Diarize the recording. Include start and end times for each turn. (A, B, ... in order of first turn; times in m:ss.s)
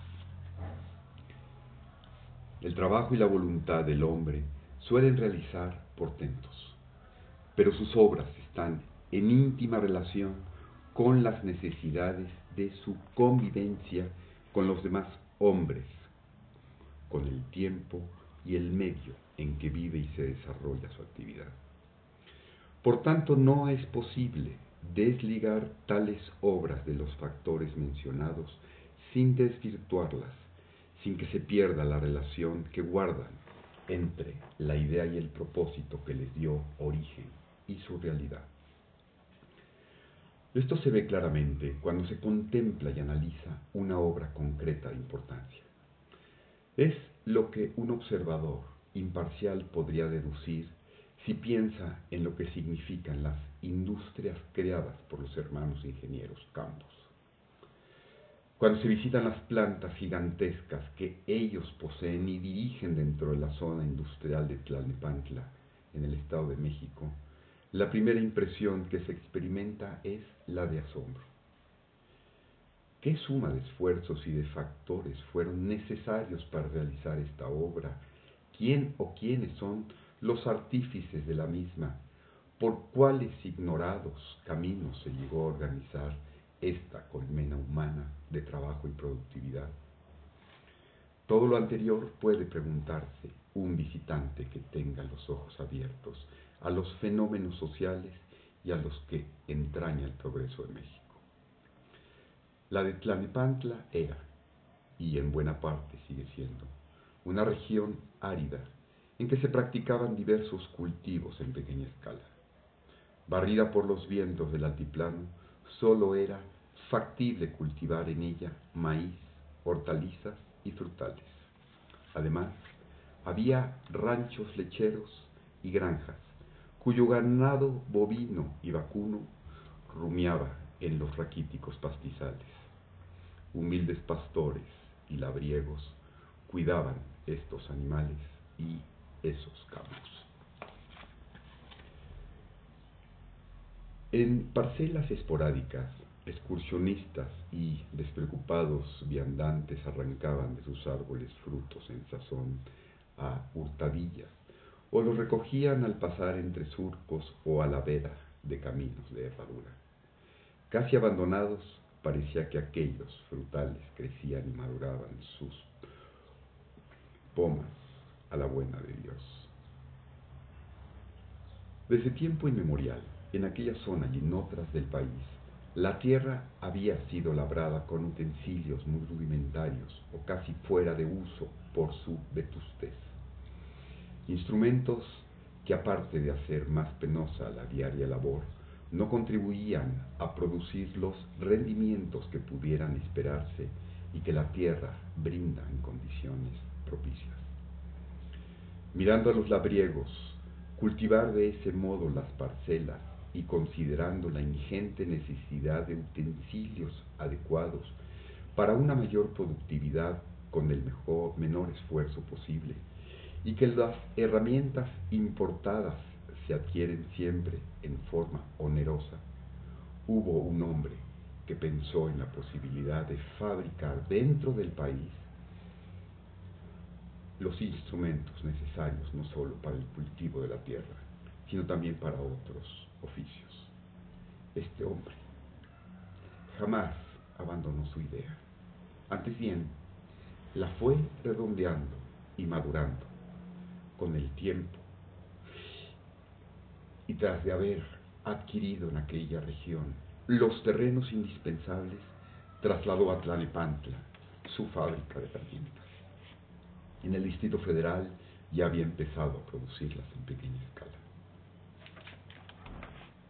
0:02.6-0:06.8 A
0:07.6-0:16.1 A
0:17.1-0:21.6 A
0:22.8-0:38.5 A
0:40.5-0:45.7 A
0:46.8-0:57.1 A
0:58.6-1:07.2 A
1:07.7-1:11.3 A
1:13.0-1:22.0 A
1:22.6-1:29.8 A
1:31.3-1:41.2 A
1:42.7-1:44.3 A
1:45.0-1:52.3 A
1:53.3-2:01.5 A
2:02.1-2:09.3 A
2:09.9-2:12.7 A
2:13.5-2:20.3 A
2:24.1-2:32.6 A
2:33.2-2:39.8 A
2:40.7-2:45.7 A
2:47.3-2:49.5 A
2:51.9-3:03.2 A
3:04.3-3:17.6 A
3:18.9-3:28.0 A
3:28.5-3:32.8 A
3:33.4-3:39.2 A
3:40.1-3:45.3 A
3:47.4-3:53.7 A
3:54.5-3:55.3 A
3:56.5-3:58.4 A
3:59.1-3:59.8 A
4:00.5-4:03.1 A
4:04.0-4:04.9 A
4:07.1-4:15.9 A
4:17.0-4:21.0 A